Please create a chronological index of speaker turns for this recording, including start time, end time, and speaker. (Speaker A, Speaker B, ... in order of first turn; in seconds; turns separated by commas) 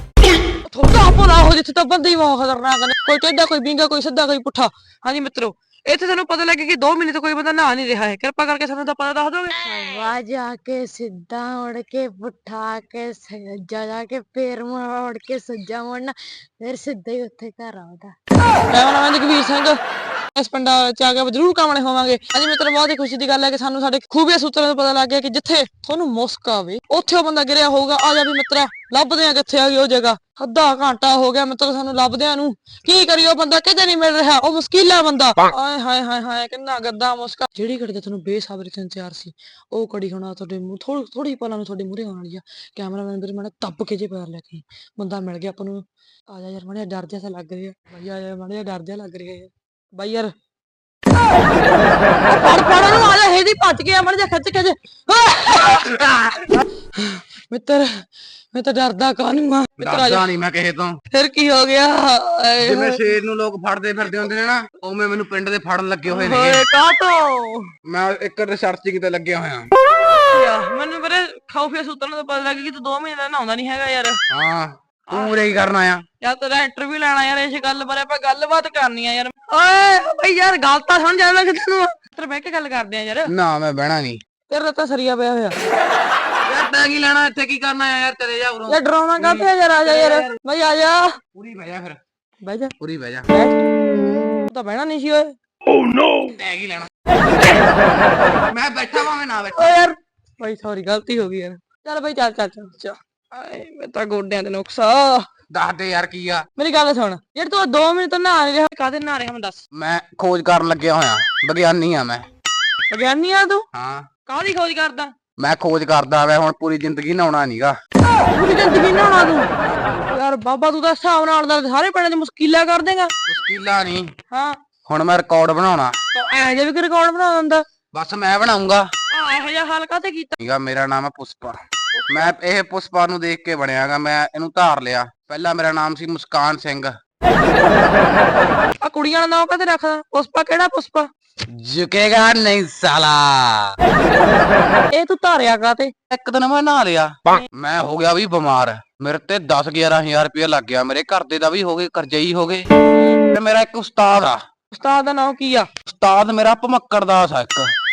Speaker A: 0.5-9.6, Speaker B: 9.6-18.1, Speaker A: 18.7-19.8, Speaker A: 20.3-50.3, Speaker A: 52.3-60.2, Speaker C: 59.8-61.0, Speaker A: 61.1-63.0, Speaker C: 62.6-66.6, Speaker A: 66.1-67.7, Speaker C: 67.8-69.7, Speaker A: 70.1-74.2, Speaker C: 74.3-76.0, Speaker A: 75.1-75.4, Speaker A: 76.2-83.3, Speaker C: 83.3-84.2, Speaker A: 84.5-85.6, Speaker C: 86.4-90.4, Speaker A: 88.7-91.1, Speaker C: 91.3-92.0, Speaker A: 92.4-92.7, Speaker C: 92.8-93.3, Speaker A: 93.3-93.6, Speaker A: 94.5-95.3, Speaker C: 95.8-96.9, Speaker C: 98.5-99.7, Speaker A: 99.5-105.3, Speaker C: 105.5-106.5, Speaker A: 106.5-109.6, Speaker C: 109.7-112.2, Speaker A: 112.9-113.6, Speaker C: 113.7-114.0, Speaker A: 114.2-115.1, Speaker C: 115.4-117.7, Speaker A: 118.3-119.5, Speaker C: 119.6-120.0, Speaker A: 120.1-123.1, Speaker C: 123.3-124.1, Speaker A: 124.3-124.6, Speaker C: 124.9-125.9, Speaker A: 126.1-127.6, Speaker C: 127.9-128.8, Speaker A: 129.1-130.3, Speaker C: 130.4-131.6, Speaker A: 131.9-132.3, Speaker C: 132.1-136.9, Speaker A: 138.8-141.1, Speaker C: 141.5-143.8, Speaker A: 144.9-145.9, Speaker C: 146.1-152.7, Speaker A: 152.8-153.2, Speaker C: 153.3-154.4, Speaker A: 154.7-155.7, Speaker C: 155.8-157.7